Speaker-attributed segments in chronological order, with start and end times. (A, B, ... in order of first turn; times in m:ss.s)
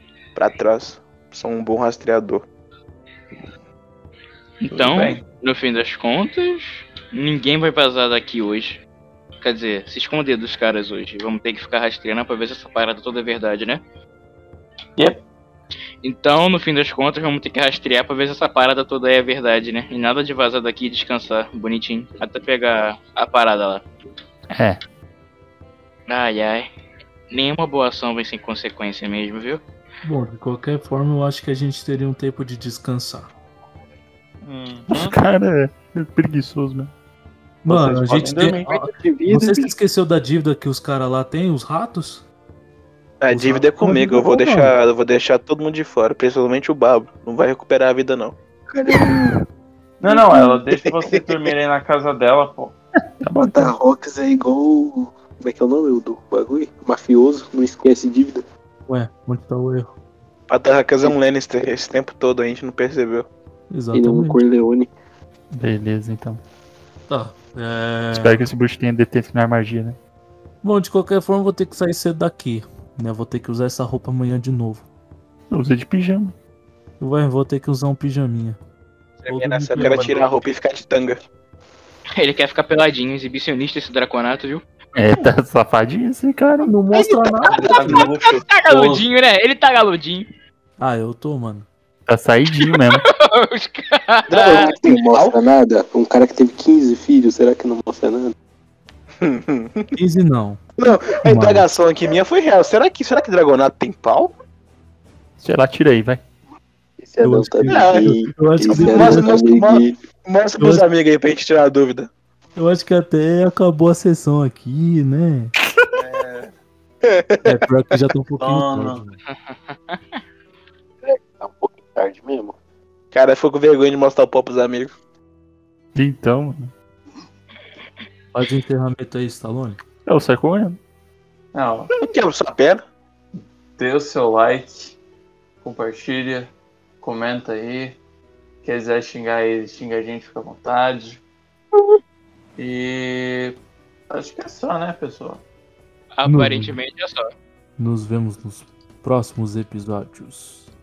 0:00.4-0:02.5 A
0:04.6-0:08.8 B
0:04.7-0:05.2 C
0:09.4-0:13.8 B
0:15.0-0:15.2 C
0:16.0-0:23.8 B
0:24.5-0:24.8 D
0:26.1-0:26.7 B
0:27.3-0:29.6 B
0:30.0-0:33.3 E
0:34.4-0:35.2 C
0:34.9-0:36.9 D
0:37.6-0:42.2 E
0:37.6-0:38.7 C
0:38.7-0:39.7 F
0:43.2-0:48.4 A
0:43.3-0:44.7 E
0:48.7-0:49.4 F
0:50.0-0:52.8 C
0:50.1-0:50.4 F
0:50.8-0:51.5 A
0:53.2-0:53.7 D
0:53.4-0:58.4 F
0:58.9-0:59.9 E
1:00.5-1:03.3 A
1:03.7-1:04.4 E
1:03.9-1:04.9 F
1:05.5-1:06.4 D
1:07.1-1:08.5 E
1:08.2-1:10.0 D
1:10.6-1:14.9 E
1:15.5-1:16.4 D
1:17.0-1:18.6 E
1:19.2-1:21.2 A
1:19.3-1:20.3 E
1:22.2-1:24.6 B
1:25.0-1:26.7 D
1:26.6-1:28.0 E
1:26.9-1:30.3 B
1:27.5-1:29.1 C
1:30.8-1:31.7 E
1:32.1-1:33.0 D
1:32.6-1:34.7 B
1:34.3-1:35.4 A
1:34.5-1:38.3 F
1:39.2-1:39.9 A
1:40.0-1:40.6 E
1:40.8-1:44.3 A
1:41.2-1:41.6 E
1:45.4-1:46.2 D
1:47.0-1:49.9 F
1:47.2-1:49.4 E
1:47.7-1:48.1 A
1:48.7-1:52.1 A
1:50.6-1:50.8 E
1:52.6-1:55.5 E
1:56.0-1:56.5 C
1:57.0-1:58.0 A
1:57.4-1:59.2 E
1:58.4-1:59.0 C
1:59.5-2:00.2 B
2:01.0-2:02.6 F
2:03.1-2:04.9 A
2:06.0-2:06.7 D
2:08.3-2:09.8 E
2:10.1-2:10.8 D
2:11.5-2:11.9 C
2:12.0-2:12.8 A
2:13.8-2:15.0 C
2:15.6-2:18.0 C
2:18.6-2:21.2 C
2:22.6-2:23.6 C
2:24.1-2:25.4 C
2:26.2-2:27.3 B
2:26.2-2:26.7 E
2:27.8-2:30.7 E